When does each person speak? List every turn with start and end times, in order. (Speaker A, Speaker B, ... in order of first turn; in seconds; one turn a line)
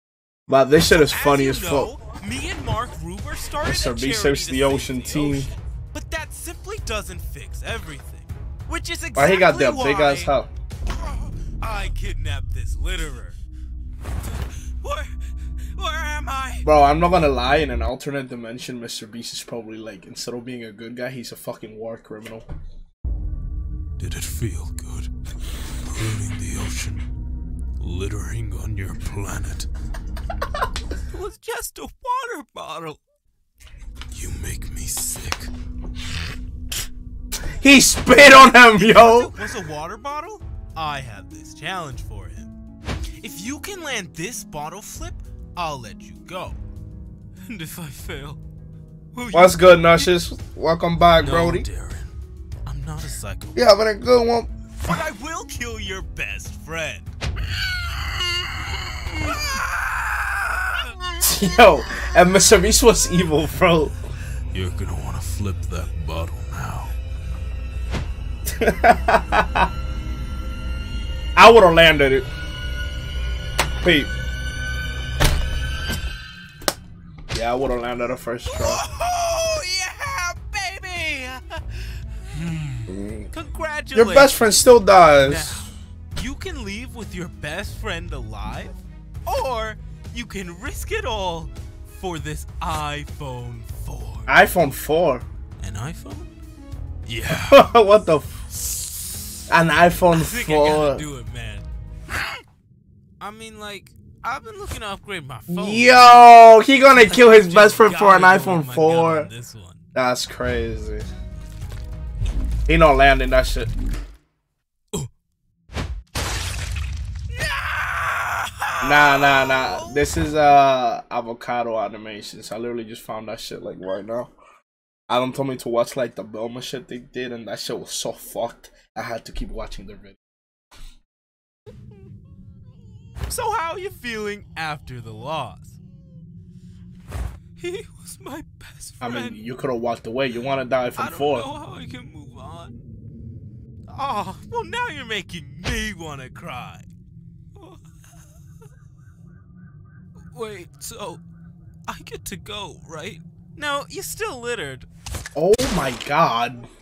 Speaker A: 0.5-1.9
Speaker B: 0.8-10.3
Speaker A: 3.6-5.5
Speaker A: 9.1-10.5
Speaker B: 10.8-13.4
Speaker B: 14.2-15.2
Speaker B: 15.7-16.7
Speaker A: 16.6-22.4
Speaker B: 24.0-25.1
Speaker B: 25.8-27.0
Speaker B: 27.8-29.7
Speaker B: 31.0-33.0
Speaker B: 34.1-35.5
Speaker A: 37.5-39.4
Speaker B: 38.2-42.5
Speaker B: 43.2-46.6
Speaker B: 47.5-48.4
Speaker B: 49.1-50.1
Speaker A: 49.3-51.6
Speaker B: 51.2-53.6
Speaker A: 53.5-55.0
Speaker B: 54.8-57.1
Speaker B: 58.2-61.0
Speaker A: 61.2-64.0
Speaker B: 64.5-66.9
Speaker A: 68.5-69.7
Speaker A: 71.3-72.3
Speaker A: 73.8-74.1
Speaker A: 77.3-78.8
Speaker B: 78.5-94.3
Speaker A: 82.9-83.3
Speaker A: 83.9-85.6
Speaker A: 94.3-95.2
Speaker B: 95.6-96.3
Speaker B: 97.0-97.7
Speaker A: 97.4-98.3
Speaker A: 99.5-101.0
Speaker B: 100.1-102.2
Speaker B: 103.2-106.0
Speaker A: 105.5-109.3
Speaker B: 106.9-109.8
Speaker A: 109.9-111.1
Speaker A: 112.7-113.7
Speaker B: 117.3-120.1
Speaker A: 118.8-124.3
Speaker A: 125.1-130.2
Speaker B: 133.3-135.8
Speaker B: 137.6-139.4
Speaker A: 139.0-141.5
Speaker B: 141.0-142.8
Speaker B: 143.9-146.9
Speaker B: 147.5-147.8
Speaker B: 150.3-151.2
Speaker B: 151.9-154.9
Speaker A: 155.3-156.7